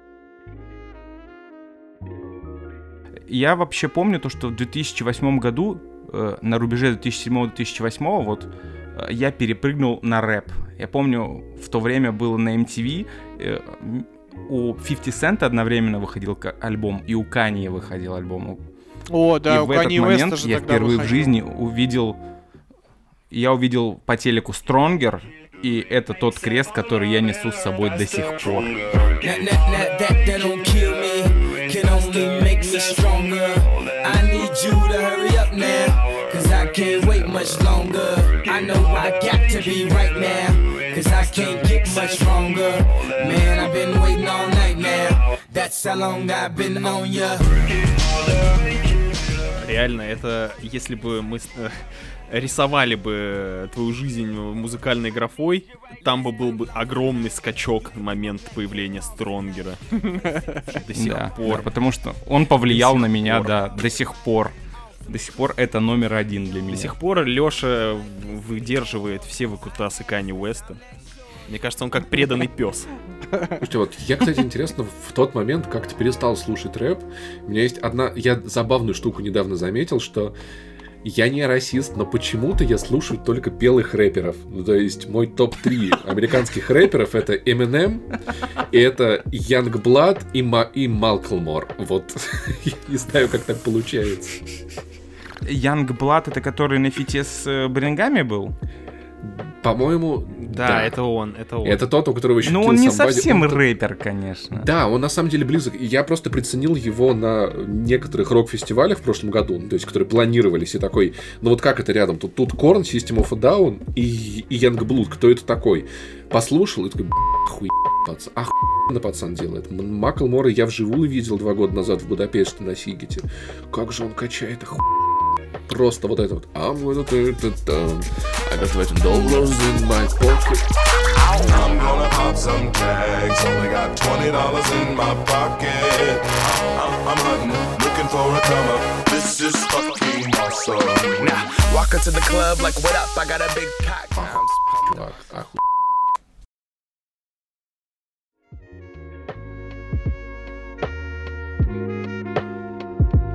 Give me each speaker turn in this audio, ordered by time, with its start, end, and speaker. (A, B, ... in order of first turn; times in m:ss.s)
0:03.3-0:18.6 A
0:19.1-0:21.3 B
0:19.5-0:22.2 A
0:23.3-0:28.8 A
0:29.2-0:47.5 C
0:49.6-0:59.8 D
1:00.7-1:01.7 D
1:01.0-1:04.5 A
1:02.7-1:03.5 D
1:05.1-1:06.9 A
1:06.7-1:10.8 D
1:11.5-1:12.9 D
1:13.6-1:20.3 E
1:21.0-1:28.1 E
1:28.7-1:34.4 E
1:35.4-1:38.5 A
1:39.2-1:41.0 E
1:40.4-1:41.8 D
1:41.6-1:43.6 E
1:42.4-1:44.7 A
1:44.5-2:04.9 E
2:05.7-2:10.7 E
2:11.4-2:21.4 F
2:21.2-2:24.8 C
2:24.2-2:25.6 E